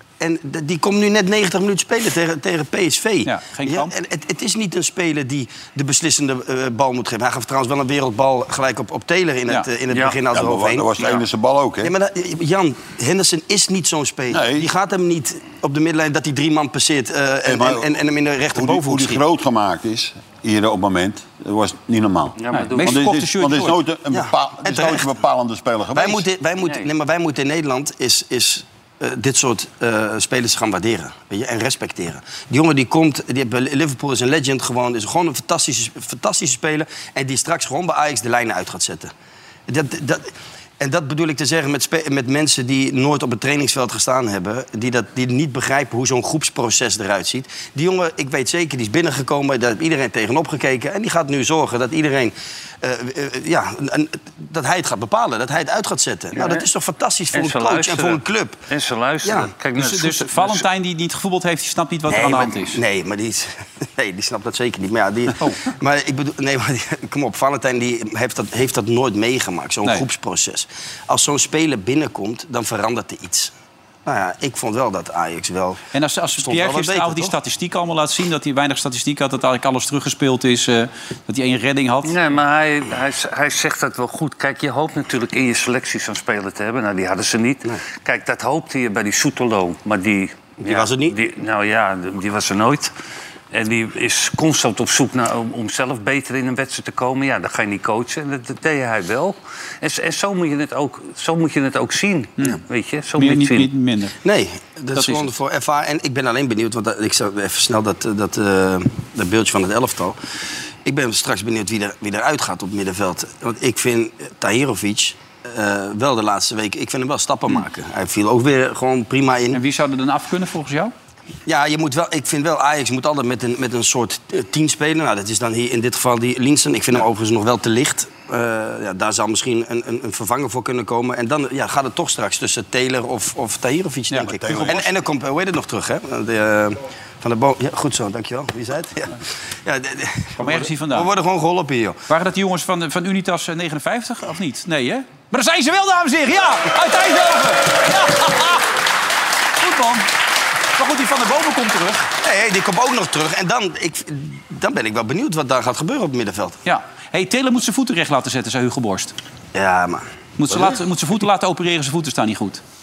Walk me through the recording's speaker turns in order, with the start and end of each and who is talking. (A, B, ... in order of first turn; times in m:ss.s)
0:00.2-0:11.2 A
0:03.2-0:03.9 B
0:09.9-0:10.2 C
0:10.3-0:11.9 D
0:11.8-0:19.2 A
0:14.3-0:14.7 D
0:17.4-0:17.9 D
0:18.5-0:26.3 D
0:22.4-0:23.0 C
0:22.5-0:23.8 B
0:24.1-0:25.1 A
0:25.9-0:39.1 A
0:26.6-0:26.9 C
0:39.7-0:58.6 A
0:56.3-0:56.7 C
0:57.3-1:00.6 C
0:59.2-0:59.5 A
0:59.8-1:02.8 B
1:02.1-1:13.5 A
1:14.0-1:15.8 A
1:15.9-1:22.1 B
1:16.4-1:17.3 A
1:22.0-1:32.9 C
1:30.6-1:31.2 A
1:33.5-1:43.7 C
1:43.2-1:44.2 B
1:44.2-1:50.2 A
1:44.9-1:45.3 B
1:50.8-1:59.6 A
1:59.5-2:00.9 B
2:01.4-2:22.0 A
2:14.1-2:14.8 B
2:14.2-2:14.9 D
2:20.4-2:21.1 B
2:22.1-2:28.7 B
2:29.6-2:30.1 B
2:30.7-2:32.1 B
2:32.2-2:36.6 A
2:36.6-2:39.1 B
2:39.5-2:40.0 A
2:40.4-2:42.6 B
2:40.5-2:40.8 D